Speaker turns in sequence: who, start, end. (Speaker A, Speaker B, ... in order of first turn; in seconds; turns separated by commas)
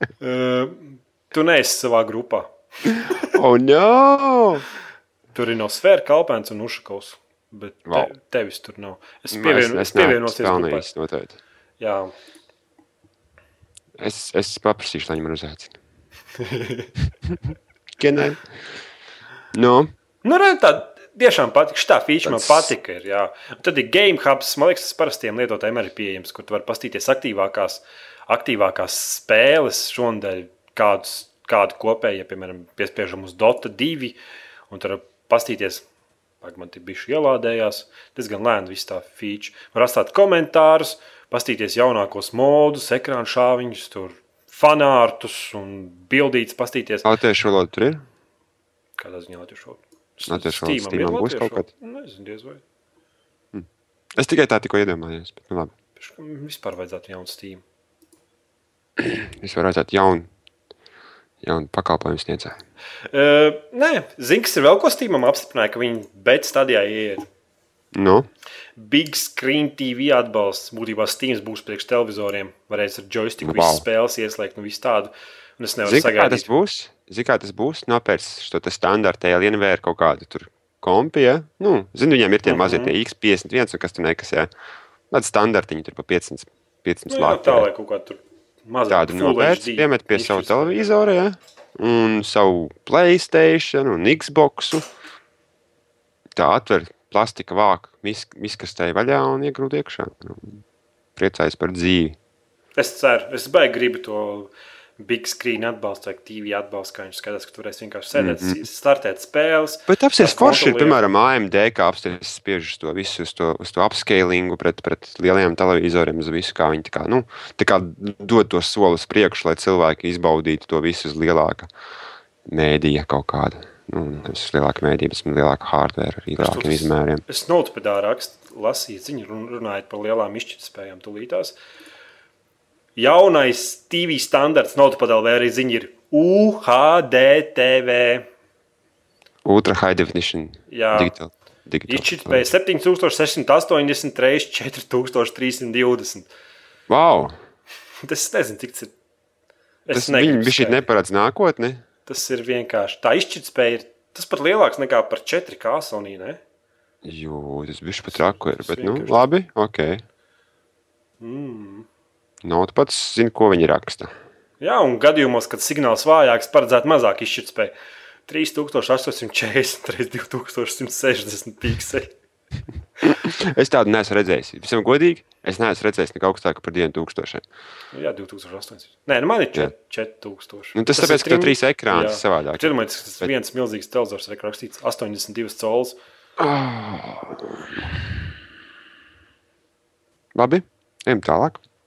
Speaker A: 0.2-2.5, Speaker B: 2.9-4.6, Speaker A: 5.3-10.9, Speaker B: 7.8-8.1, Speaker B: 9.3-11.3, Speaker A: 11.8-12.1, Speaker B: 14.0-15.7, Speaker A: 16.4-16.9, Speaker B: 18.0-18.4, Speaker B: 19.5-19.9, Speaker A: 20.2-34.2, Speaker B: 22.2-22.7, Speaker A: 34.7-35.8, Speaker A: 36.4-47.1, Speaker B: 47.0-48.0, Speaker A: 49.0-52.6, Speaker B: 50.3-51.7, Speaker B: 53.5-55.7, Speaker A: 56.0-57.6, Speaker B: 59.0-60.3, Speaker B: 61.4-62.6, Speaker A: 63.1-67.2, Speaker B: 67.9-68.3, Speaker A: 68.8-76.5, Speaker B: 73.4-73.8, Speaker B: 75.8-84.5, Speaker A: 82.4-82.9, Speaker B: 85.1-87.7, Speaker A: 87.1-90.8, Speaker B: 88.9-94.8, Speaker B: 96.3-100.6, Speaker B: 101.2-102.2, Speaker A: 102.8-111.0, Speaker B: 108.1-108.6, Speaker B: 109.9-121.7, Speaker B: 122.5-127.2, Speaker A: 126.4-131.6, Speaker A: 132.9-138.3, Speaker B: 139.4-142.5, Speaker A: 140.7-141.1, Speaker A: 141.9-146.3, Speaker B: 146.9-147.3, Speaker A: 148.0-148.9, Speaker A: 149.8-150.8, Speaker B: 149.9-151.8, Speaker A: 152.1-156.4, Speaker B: 157.0-160.0, Speaker A: 158.5-159.2, Speaker A: 161.2-161.9, Speaker B: 162.4-164.1, Speaker A: 164.6-167.7, Speaker A: 168.3-172.1, Speaker B: 173.0-177.4, Speaker A: 177.9-186.0, Speaker B: 180.7-183.3, Speaker B: 186.4-187.9, Speaker B: 190.3-191.6